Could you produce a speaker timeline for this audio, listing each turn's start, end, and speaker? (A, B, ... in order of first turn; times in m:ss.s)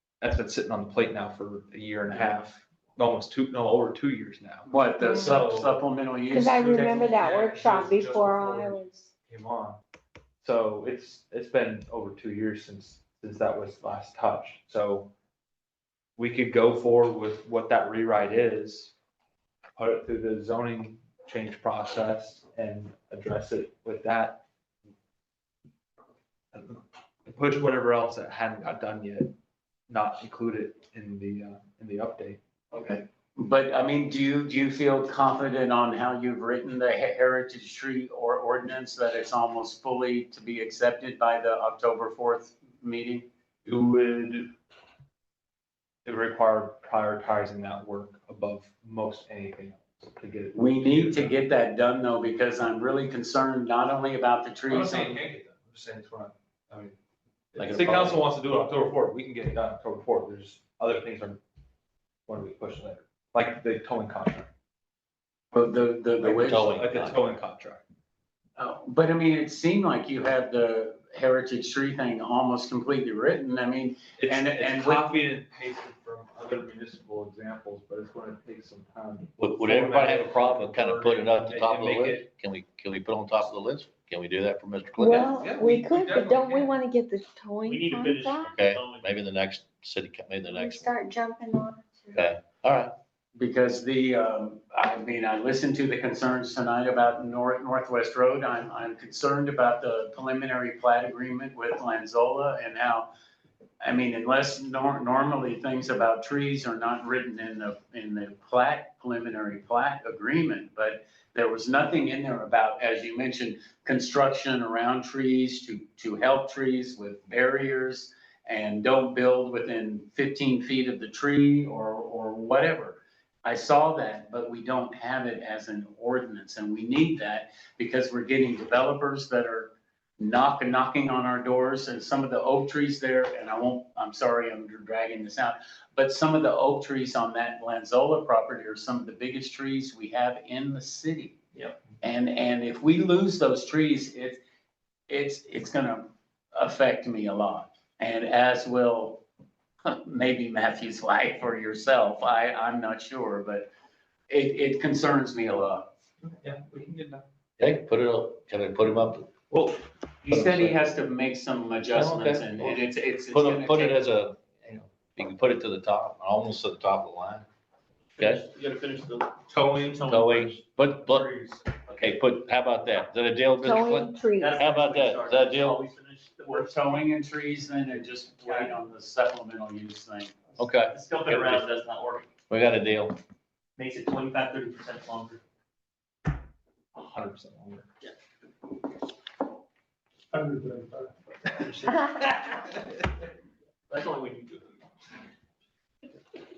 0:00.2-0:05.8 A
0:04.6-0:07.1 B
0:06.3-0:09.1 C
0:06.8-0:09.8 A
0:10.4-0:15.1 A
0:16.2-0:18.9 A
0:19.8-0:24.4 A
0:26.5-0:29.3 A
0:29.9-0:32.4 A
0:32.7-0:43.3 B
0:43.6-0:44.5 A
0:46.0-0:51.4 A
0:50.5-0:55.2 B
0:54.7-0:56.9 A
0:57.5-1:01.4 A
0:57.6-0:58.2 D
1:02.3-1:04.5 A
1:05.5-1:06.8 B
1:06.2-1:07.2 D
1:06.2-1:07.8 A
1:08.6-1:15.1 B
1:14.2-1:22.3 A
1:19.4-1:25.2 D
1:25.0-1:28.6 C
1:25.1-1:26.8 A
1:27.7-1:29.0 E
1:28.6-1:30.9 D
1:30.5-1:32.2 C
1:32.1-1:32.9 D
1:33.3-1:43.1 B
1:43.8-2:21.4 B
2:22.0-2:24.4 B
2:25.1-2:29.2 B
2:29.8-2:33.7 B
2:34.3-2:35.9 B
2:36.2-2:37.2 A
2:37.6-2:39.3 D
2:40.2-2:44.0 B
2:40.3-2:40.7 D
2:41.9-2:42.5 D
2:43.3-2:44.4 D
2:45.2-2:47.4 D
2:48.2-2:50.5 E
2:48.2-2:48.4 D
2:49.5-2:50.1 A
2:50.0-2:51.3 D
2:51.1-2:51.7 A
2:51.9-2:55.8 D
2:53.6-2:54.6 C
2:54.4-2:57.0 E
2:56.5-3:00.3 B
2:58.4-2:58.7 E
3:00.6-3:01.7 D
3:00.9-3:02.3 E
3:02.5-3:03.2 D
3:03.8-3:05.4 E
3:07.0-3:07.8 A
3:10.3-3:12.1 A
3:13.9-3:14.7 E